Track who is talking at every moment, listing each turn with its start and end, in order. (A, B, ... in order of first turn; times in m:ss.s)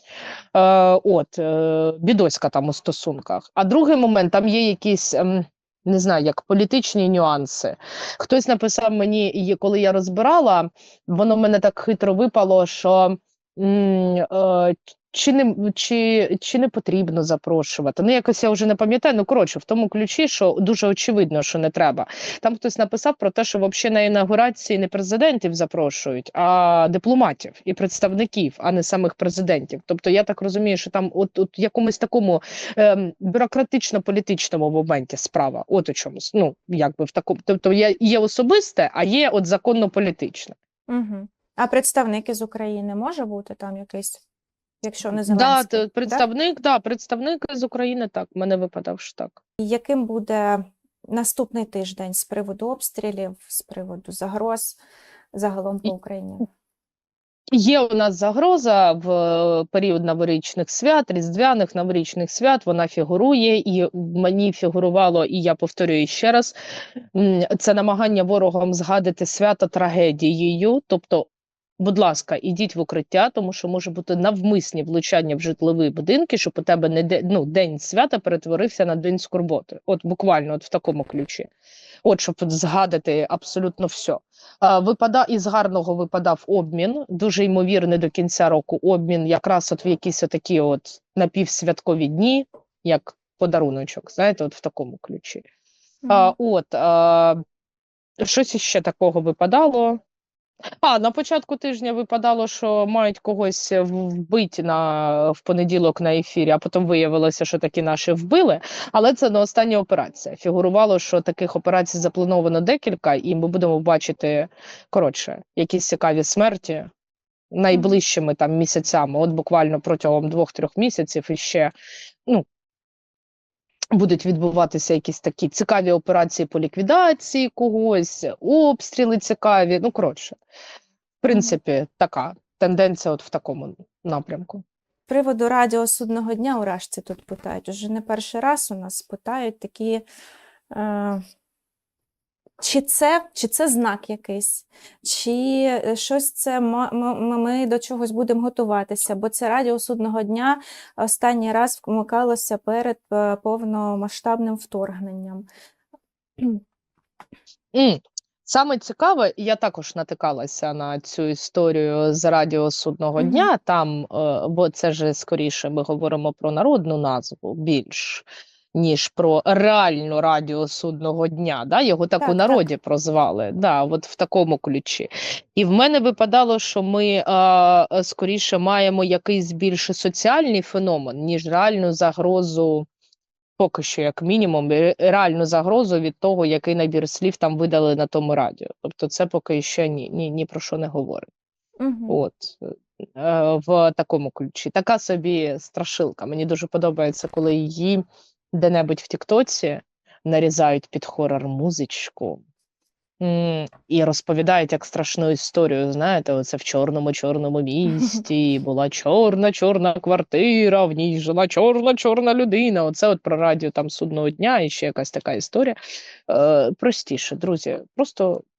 0:00.5-0:40.6 A
0:40.9-0:44.2 B
0:44.8-0:46.2 B
0:45.2-0:49.4 A
0:49.6-0:54.8 B
0:55.3-0:56.5 B
0:57.5-1:06.6 A
1:07.1-1:21.5 A
1:22.0-1:35.4 A
1:36.0-1:36.3 B
1:36.1-1:37.4 A
1:38.2-1:40.0 A
1:40.8-1:56.9 A
1:57.5-2:01.7 A
1:57.7-1:58.0 B
2:03.9-2:10.4 A
2:11.2-2:14.6 A
2:11.3-2:11.6 B
2:15.1-2:20.0 B
2:20.7-2:21.2 B
2:22.6-2:35.5 B
2:37.7-3:02.9 A
2:43.2-2:43.5 B
2:52.2-2:52.7 B
3:03.6-3:11.3 A
3:11.8-3:12.2 B
3:12.1-3:18.0 A
3:18.5-3:22.4 A
3:23.2-3:35.8 A
3:36.3-3:38.4 A